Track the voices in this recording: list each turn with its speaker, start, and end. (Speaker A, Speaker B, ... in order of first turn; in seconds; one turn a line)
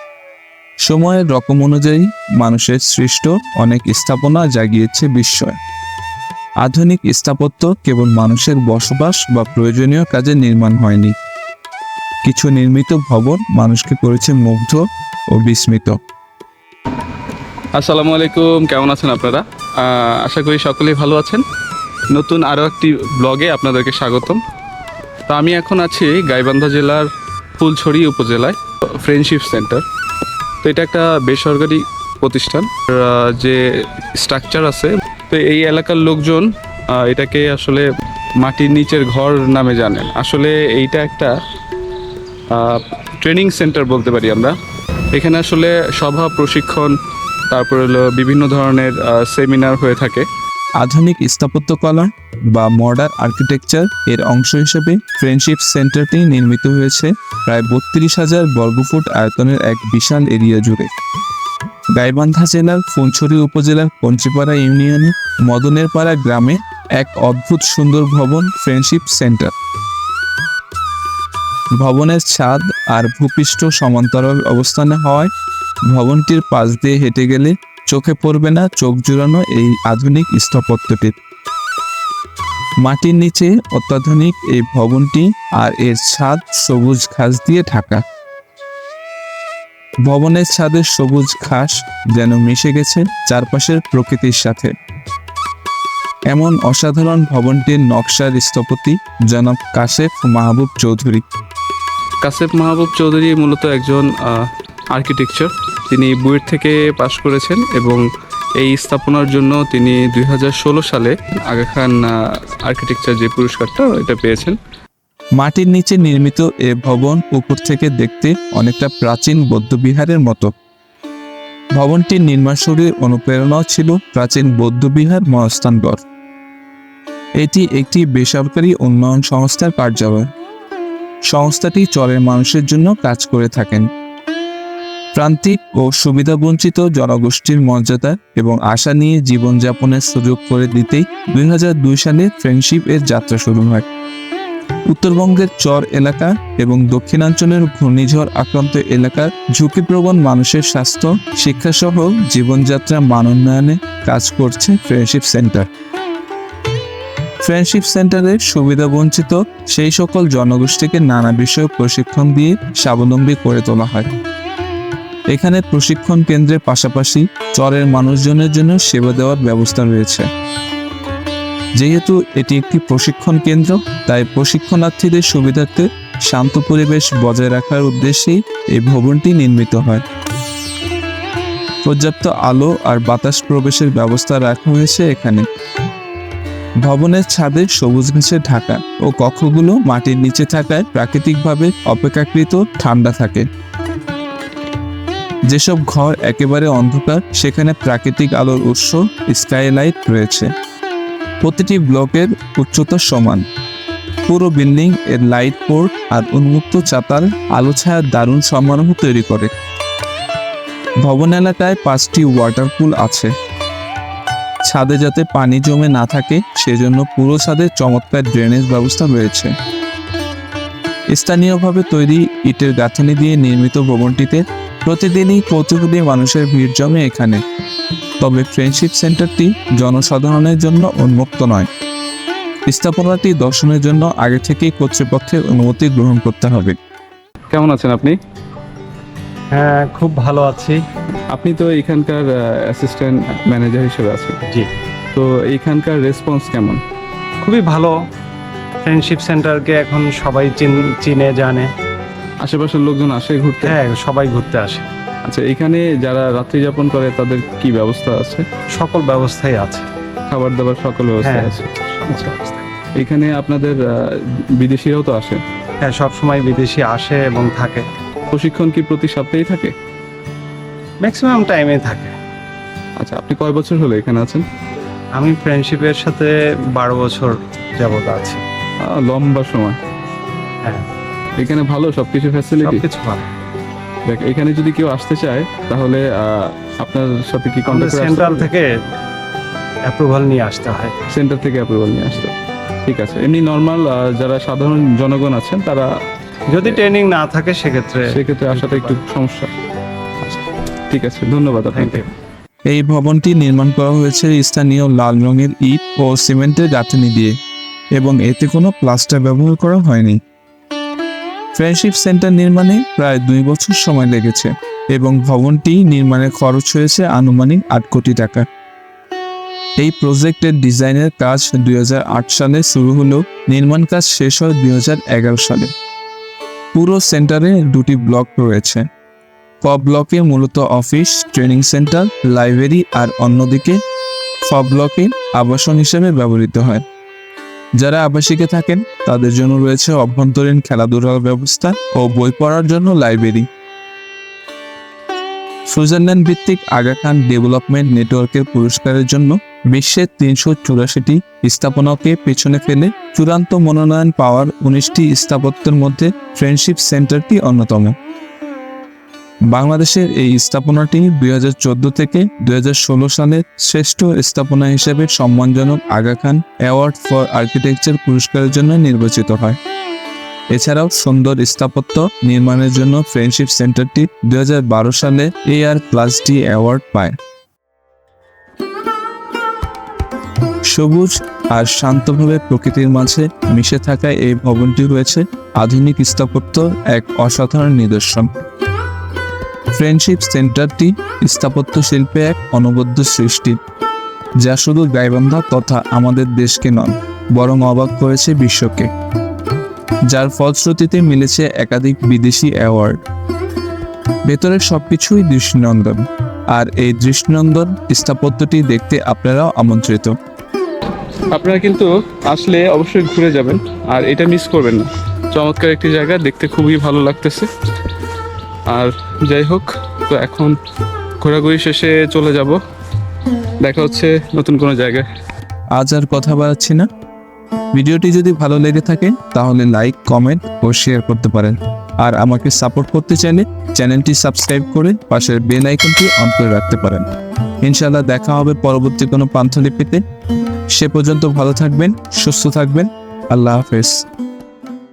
Speaker A: 0.8-5.6
Speaker A: 6.6-11.1
Speaker A: 12.2-16.0
Speaker B: 17.7-21.4
Speaker B: 22.1-24.4
Speaker B: 25.3-29.8
Speaker B: 30.6-41.4
Speaker B: 42.5-44.5
Speaker B: 45.1-47.0
Speaker B: 47.5-50.3
Speaker A: 50.8-60.9
Speaker A: 61.9-69.5
Speaker A: 71.7-75.3
Speaker A: 75.9-81.1
Speaker A: 82.8-88.0
Speaker A: 90.0-94.7
Speaker A: 96.3-101.2
Speaker B: 102.2-108.0
Speaker B: 108.6-114.6
Speaker A: 115.4-120.5
Speaker A: 121.7-126.0
Speaker A: 127.4-130.3
Speaker A: 131.3-133.9
Speaker A: 135.1-143.8
Speaker A: 144.9-155.7
Speaker A: 157.4-164.1
Speaker A: 165.3-170.3
Speaker A: 171.8-180.0
Speaker A: 181.8-185.4
Speaker A: 186.8-193.5
Speaker A: 195.5-200.5
Speaker A: 201.4-203.4
Speaker A: 204.3-209.5
Speaker A: 211.0-213.3
Speaker A: 214.6-219.5
Speaker A: 221.1-227.4
Speaker A: 228.2-231.7
Speaker A: 232.7-236.8
Speaker B: 237.5-238.2
Speaker C: 239.5-240.8
Speaker B: 241.3-244.4
Speaker B: 245.1-246.8
Speaker C: 247.4-248.0
Speaker C: 248.8-251.7
Speaker B: 252.4-253.8
Speaker C: 253.6-254.9
Speaker B: 255.2-258.4
Speaker C: 258.7-259.8
Speaker B: 260.3-262.3
Speaker C: 261.2-261.5
Speaker B: 263.0-265.4
Speaker C: 265.8-267.9
Speaker B: 268.3-269.7
Speaker C: 271.0-272.1
Speaker B: 273.0-274.4
Speaker C: 275.1-278.4
Speaker B: 278.8-279.8
Speaker B: 281.4-282.8
Speaker C: 282.6-283.3
Speaker B: 284.1-288.5
Speaker C: 287.6-288.8
Speaker C: 289.9-290.9
Speaker B: 291.1-292.3
Speaker B: 292.8-295.9
Speaker C: 296.5-299.0
Speaker B: 298.1-299.5
Speaker B: 300.2-302.1
Speaker C: 301.7-302.1
Speaker A: 302.7-307.3
Speaker A: 307.9-310.2
Speaker A: 311.5-318.4
Speaker A: 319.8-325.7
Speaker A: 326.7-328.9
Speaker A: 329.6-333.8
Speaker A: 334.4-336.8
Speaker A: 337.8-343.5
Speaker A: 345.7-357.9
Speaker A: 359.5-369.6
Speaker A: 370.5-377.2
Speaker A: 380.7-388.3
Speaker A: 389.7-393.6
Speaker A: 394.4-398.9
Speaker A: 400.1-403.0
Speaker A: 404.3-410.1
Speaker B: 411.3-417.5
Speaker B: 418.7-420.6
Speaker B: 421.2-422.6
Speaker B: 423.6-425.1
Speaker A: 425.7-426.9
Speaker A: 427.7-437.1
Speaker A: 437.6-440.0
Speaker A: 440.7-444.1